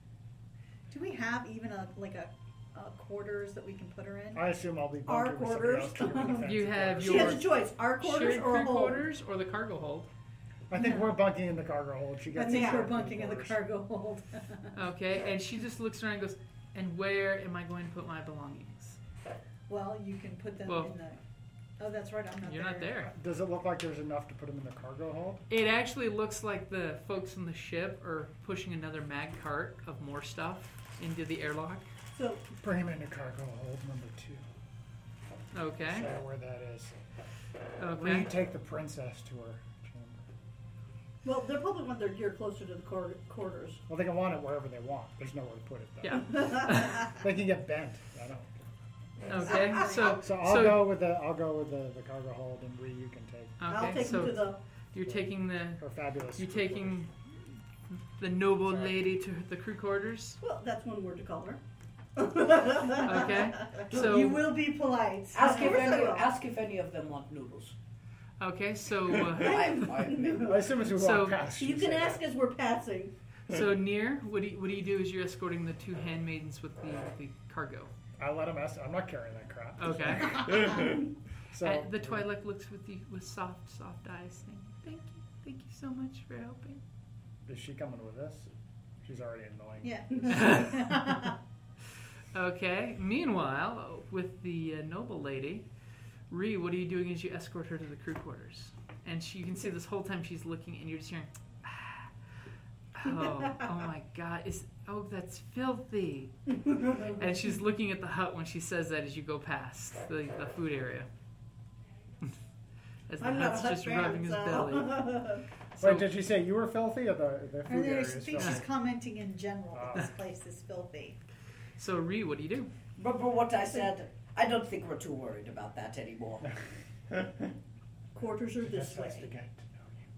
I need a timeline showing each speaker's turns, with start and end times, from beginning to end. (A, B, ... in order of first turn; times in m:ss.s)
0:00.9-0:04.4 A
0:04.3-0:07.5 B
0:05.1-0:09.0 C
0:06.4-0:10.1 D
0:10.7-0:13.6 B
0:10.7-0:11.1 A
0:12.3-0:14.8 A
0:12.4-0:12.9 C
0:14.7-0:19.0 D
0:19.7-0:21.2 A
0:20.6-0:20.9 D
0:21.8-0:22.9 A
0:22.4-0:23.1 D
0:23.0-0:25.5 B
0:25.5-0:31.9 D
0:32.2-0:32.4 C
0:32.6-0:34.4 B
0:35.5-0:36.1 D
0:35.9-0:37.0 B
0:37.8-0:38.3 D
0:37.9-0:40.3 B
0:41.2-0:43.8 C
0:43.9-0:48.7 B
0:46.0-0:47.1 D
0:49.3-0:50.9 D
0:49.3-0:50.2 A
0:50.0-0:54.2 B
0:53.6-0:55.8 D
0:53.7-0:54.6 C
0:55.0-0:57.0 B
0:56.4-0:57.1 D
0:57.9-1:00.4 D
0:58.7-0:59.0 B
1:00.4-1:01.6 C
1:02.2-1:03.7 C
1:03.0-1:04.4 D
1:03.6-1:06.2 A
1:03.9-1:04.4 E
1:05.3-1:07.8 E
1:05.4-1:06.3 C
1:08.4-1:09.7 D
1:09.3-1:10.6 E
1:09.4-1:10.8 C
1:10.4-1:12.2 B
1:10.9-1:11.4 D
1:11.6-1:13.1 C
1:13.5-1:17.9 D
1:18.2-1:22.3 B
1:19.8-1:20.9 D
1:21.6-1:26.8 D
1:27.4-1:28.5 B
1:29.0-1:30.6 B
1:29.8-1:31.4 A
1:30.3-1:30.9 D
1:32.3-1:35.7 D
1:36.3-1:42.1 D
1:42.9-1:51.1 D
1:46.7-1:47.2 C
1:53.1-1:55.2 D
1:53.2-1:55.4 C
1:55.8-1:56.1 D
1:55.8-1:58.7 B
1:57.7-2:01.2 A
1:59.7-2:00.1 B
2:01.8-2:02.7 D
2:03.0-2:06.5 E
2:08.1-2:09.3 C
2:08.6-2:10.0 B